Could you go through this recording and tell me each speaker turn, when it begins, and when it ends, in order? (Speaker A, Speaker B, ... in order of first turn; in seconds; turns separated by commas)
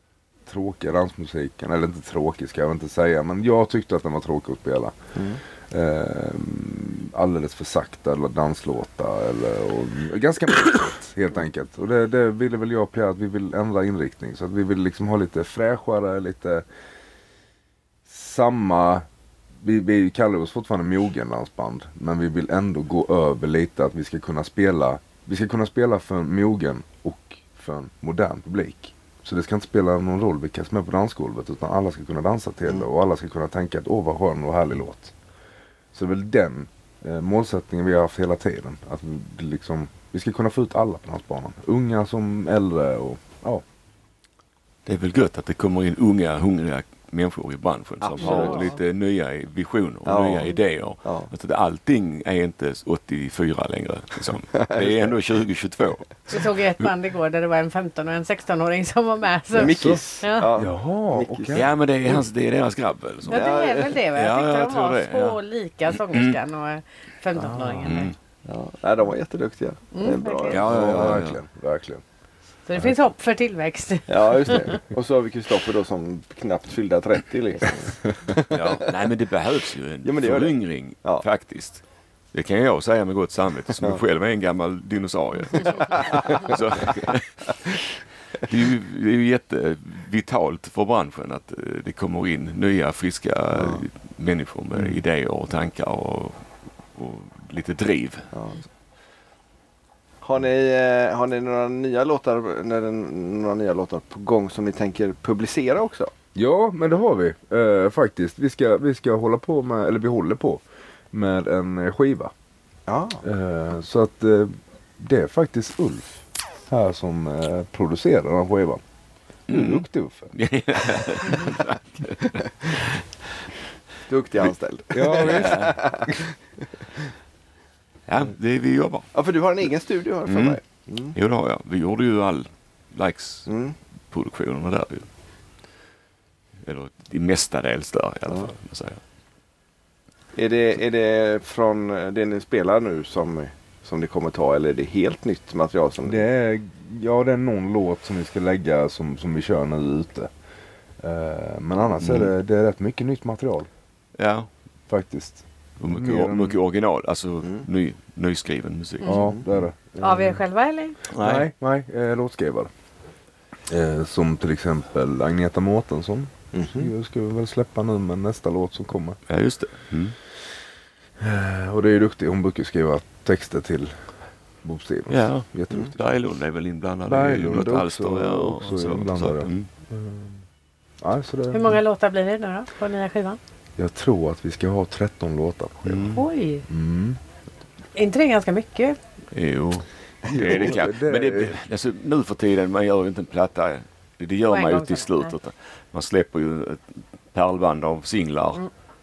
Speaker A: 0.5-5.0, Speaker B: 5.2-5.4, Speaker A: 5.7-16.6, Speaker A: 18.1-19.1, Speaker A: 19.6-35.1, Speaker A: 35.9-43.6, Speaker C: 44.9-56.9, Speaker B: 48.0-48.7, Speaker D: 48.2-48.8, Speaker B: 50.1-51.3, Speaker B: 54.5-55.2, Speaker D: 56.3-60.5, Speaker B: 59.5-61.6, Speaker A: 59.5-61.8, Speaker C: 61.5-65.4, Speaker B: 63.3-64.0, Speaker D: 63.3-68.1, Speaker C: 66.1-66.4, Speaker A: 67.3-68.1, Speaker C: 67.8-68.2, Speaker B: 68.5-71.2, Speaker D: 69.9-70.7, Speaker C: 70.5-71.4, Speaker A: 70.5-72.0, Speaker D: 72.7-74.8, Speaker B: 74.1-78.9, Speaker C: 78.5-87.7, Speaker B: 80.0-81.2, Speaker B: 85.8-86.5, Speaker C: 88.4-96.4, Speaker B: 93.5-93.8, Speaker C: 96.9-98.3, Speaker B: 98.3-98.6, Speaker B: 100.2-106.1, Speaker A: 106.3-112.3, Speaker B: 112.9-113.2, Speaker A: 113.2-116.2, Speaker A: 116.7-118.8, Speaker A: 119.5-120.3, Speaker C: 119.5-123.0, Speaker B: 124.1-126.3, Speaker A: 124.9-126.1, Speaker C: 125.0-125.8, Speaker C: 128.1-129.1, Speaker B: 129.1-131.2, Speaker C: 130.2-130.6, Speaker C: 131.1-133.5, Speaker B: 133.5-133.8, Speaker C: 134.1-135.1, Speaker C: 136.6-139.0, Speaker B: 140.3-146.2, Speaker A: 146.0-150.3, Speaker A: 151.0-153.7, Speaker C: 152.0-152.3, Speaker C: 154.2-154.5, Speaker A: 154.9-156.6, Speaker C: 155.8-159.4, Speaker D: 159.0-159.3, Speaker A: 159.0-160.4, Speaker B: 159.1-159.4, Speaker D: 160.0-161.0, Speaker C: 161.1-161.5, Speaker A: 161.2-162.7, Speaker A: 163.7-169.2, Speaker B: 166.5-166.9, Speaker C: 169.3-170.2, Speaker A: 171.2-174.0, Speaker A: 174.6-176.0, Speaker C: 175.1-179.7, Speaker A: 177.1-180.4, Speaker A: 181.0-181.8, Speaker D: 181.5-183.4, Speaker A: 183.8-187.2, Speaker C: 185.9-186.2, Speaker D: 186.1-186.7, Speaker D: 188.0-189.0, Speaker C: 189.3-198.6, Speaker A: 190.2-191.6, Speaker D: 194.5-195.3